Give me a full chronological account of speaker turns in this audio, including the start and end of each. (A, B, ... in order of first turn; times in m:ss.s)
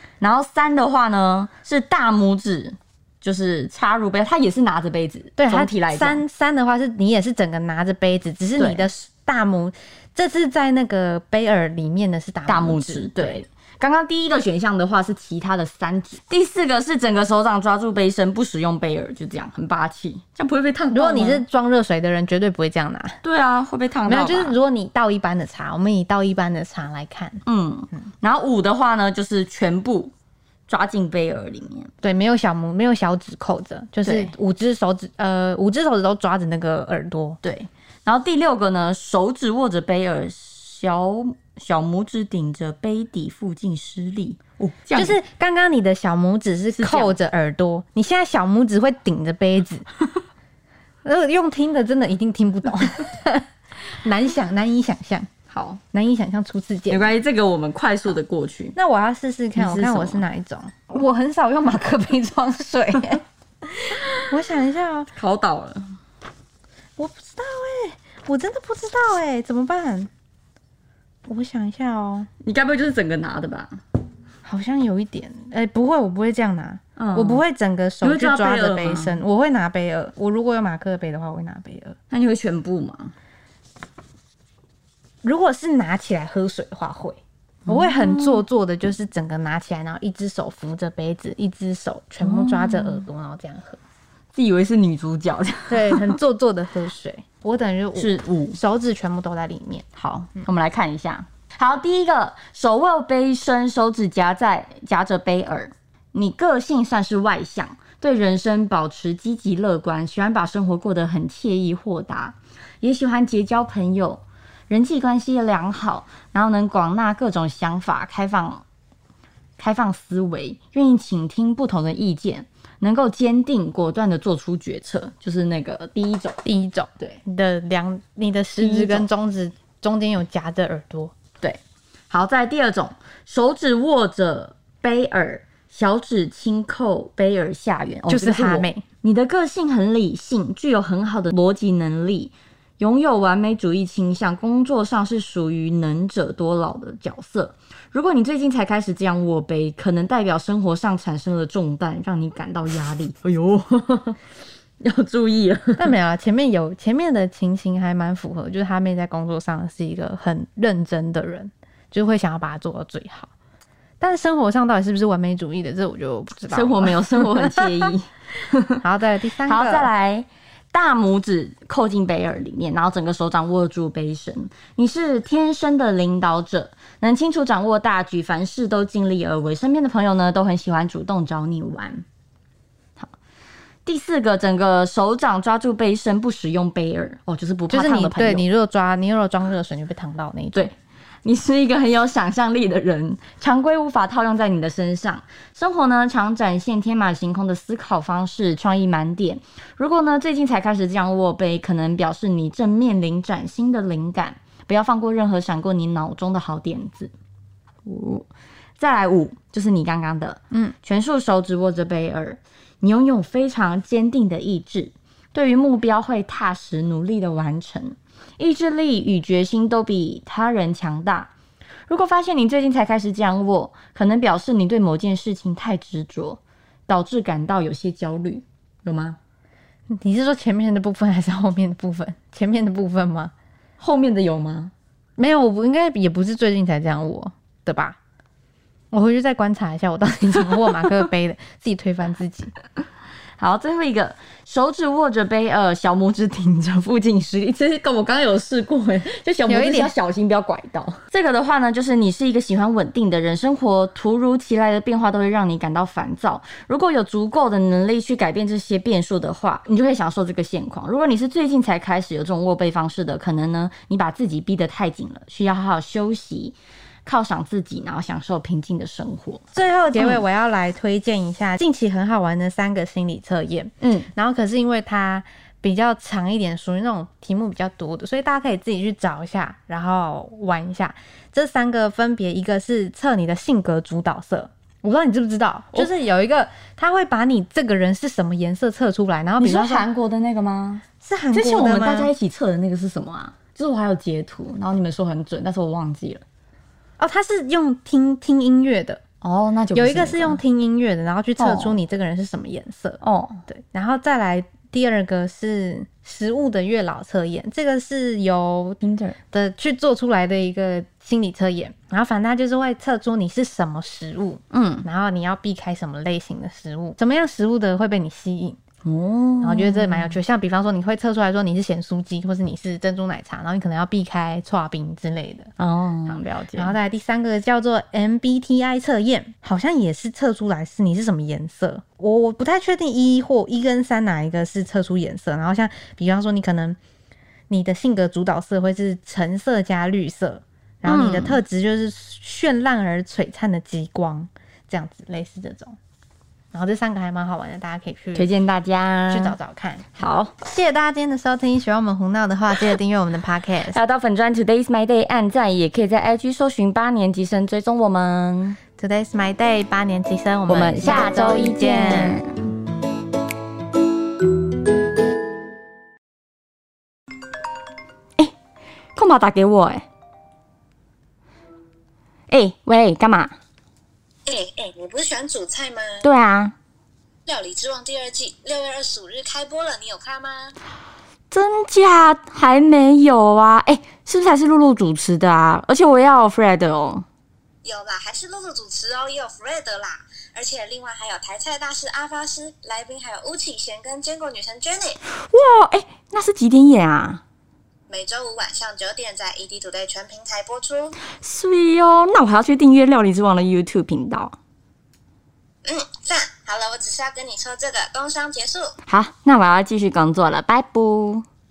0:00.2-0:06.2 A
0:05.4-0:13.4 B
0:08.6-0:08.8 A
0:12.5-0:21.4 A
0:20.9-0:23.2 B
0:23.2-0:24.6 A
0:24.0-0:27.4 B
0:27.4-0:30.1 A
0:30.7-0:31.9 A
0:32.0-0:37.4 B
0:34.0-0:34.3 A
0:37.4-0:45.2 A
0:44.9-0:49.8 B
0:46.8-0:47.1 A
0:51.0-0:55.3 B
0:55.5-0:55.8 A
0:55.9-0:57.1 B
0:56.9-0:58.8 A
0:58.7-1:05.1 B
0:59.6-1:00.2 A
1:05.1-1:05.9 A
1:07.0-1:10.1 B
1:11.2-1:12.3 B
1:12.4-1:13.8 A
1:14.4-1:22.0 B
1:17.0-1:17.4 A
1:18.0-1:19.2 A
1:22.1-1:23.1 A
1:25.2-1:33.8 B
1:27.7-1:28.4 A
1:32.2-1:33.0 A
1:34.3-1:36.1 A
1:35.7-1:39.8 B
1:38.0-1:38.6 A
1:40.0-1:58.6 A
1:59.6-2:06.4 A
2:06.4-2:11.1 B
2:08.6-2:09.0 A
2:12.1-2:34.2 A
2:18.1-2:18.8 B
2:34.8-2:35.9 A
2:35.8-2:43.3 B
2:44.0-2:47.9 B
2:46.5-2:48.8 A
2:48.8-2:49.9 B
2:49.4-3:02.0 A
3:03.8-3:08.4 A
3:07.7-3:10.7 B
3:11.2-3:27.1 A
3:27.8-3:28.3 A
3:28.8-3:41.3 A
3:41.9-3:49.2 A
3:49.9-3:53.3 B
3:53.8-3:54.7 A
3:55.2-3:58.0 B
3:58.9-4:02.5 B
4:03.4-4:29.4 A
4:09.5-4:09.9 B
4:29.5-4:49.9 B
4:30.0-4:30.2 A
4:33.8-4:34.1 A
4:49.4-4:56.2 A
4:51.0-4:52.1 B
4:57.0-4:59.0 B
4:59.2-5:00.4 A
4:59.7-5:08.8 B
5:01.4-5:01.8 A
5:03.0-5:03.4 A
5:08.8-5:09.2 A
5:09.3-5:18.6 B
5:14.5-5:14.8 A
5:18.8-5:20.2 A
5:19.4-5:25.5 B
5:25.6-5:26.7 A
5:26.6-5:36.8 B
5:37.5-5:45.8 B
5:40.8-5:41.4 A
5:46.5-5:48.3 B
5:48.1-5:49.4 A
5:49.1-5:49.9 B
5:50.0-5:50.3 A
5:50.4-5:53.8 B
5:53.7-5:58.6 A
5:58.8-6:02.2 B
6:00.5-6:02.3 A
6:09.0-6:09.8 A
6:12.3-6:13.3 A
6:14.3-6:16.0 C
6:16.0-6:16.5 A
6:17.2-6:20.5 C
6:21.3-6:27.0 A
6:27.6-6:35.0 C
6:35.1-6:37.2 A
6:37.9-6:41.0 C
6:41.1-6:44.3 A
6:45.6-6:48.7 C
6:48.9-6:51.2 A